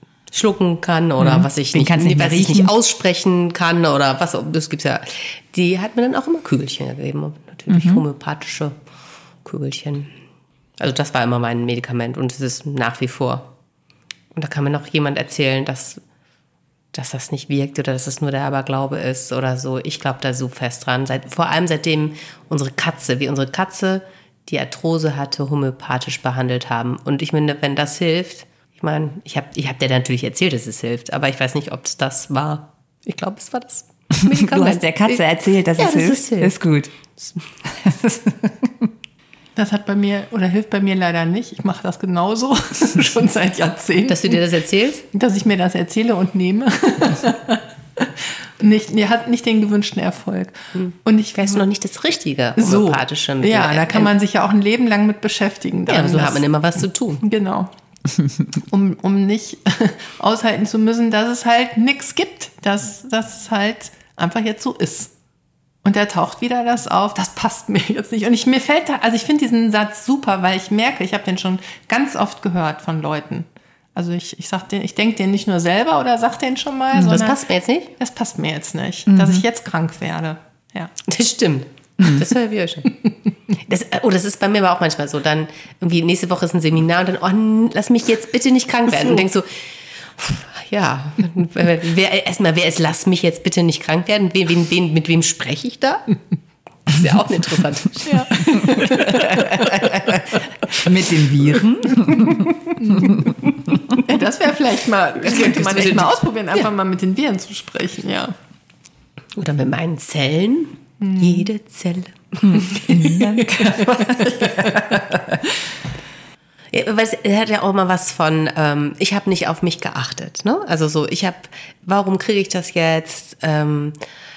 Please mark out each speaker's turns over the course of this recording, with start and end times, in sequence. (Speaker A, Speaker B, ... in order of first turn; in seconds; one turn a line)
Speaker A: 0.3-8.7
Speaker B: 1.2-2.7
Speaker B: 7.7-8.0
Speaker A: 9.4-10.1
Speaker A: 10.8-13.5
Speaker A: 14.3-16.0
Speaker A: 16.9-35.2
Speaker B: 34.2-36.9
Speaker A: 35.8-36.5
Speaker B: 37.6-38.9
Speaker C: 39.5-44.4
Speaker A: 44.1-45.0
Speaker C: 45.1-51.6
Speaker A: 50.7-54.1
Speaker C: 52.6-56.4
Speaker A: 55.9-57.2
Speaker C: 57.2-57.7
Speaker C: 58.6-65.1
Speaker C: 65.8-77.4
Speaker A: 77.0-77.9
Speaker C: 78.0-80.9
Speaker B: 79.1-79.4
Speaker A: 81.1-82.9
Speaker B: 82.0-82.2
Speaker A: 83.5-96.0
Speaker A: 96.8-100.4
Speaker C: 98.0-99.7
Speaker B: 100.7-103.3
Speaker C: 101.9-103.2
Speaker C: 104.0-108.3
Speaker A: 105.2-106.7
Speaker A: 109.3-114.2
Speaker C: 111.0-111.5
Speaker B: 112.4-115.4
Speaker C: 114.4-114.7
Speaker A: 116.7-124.0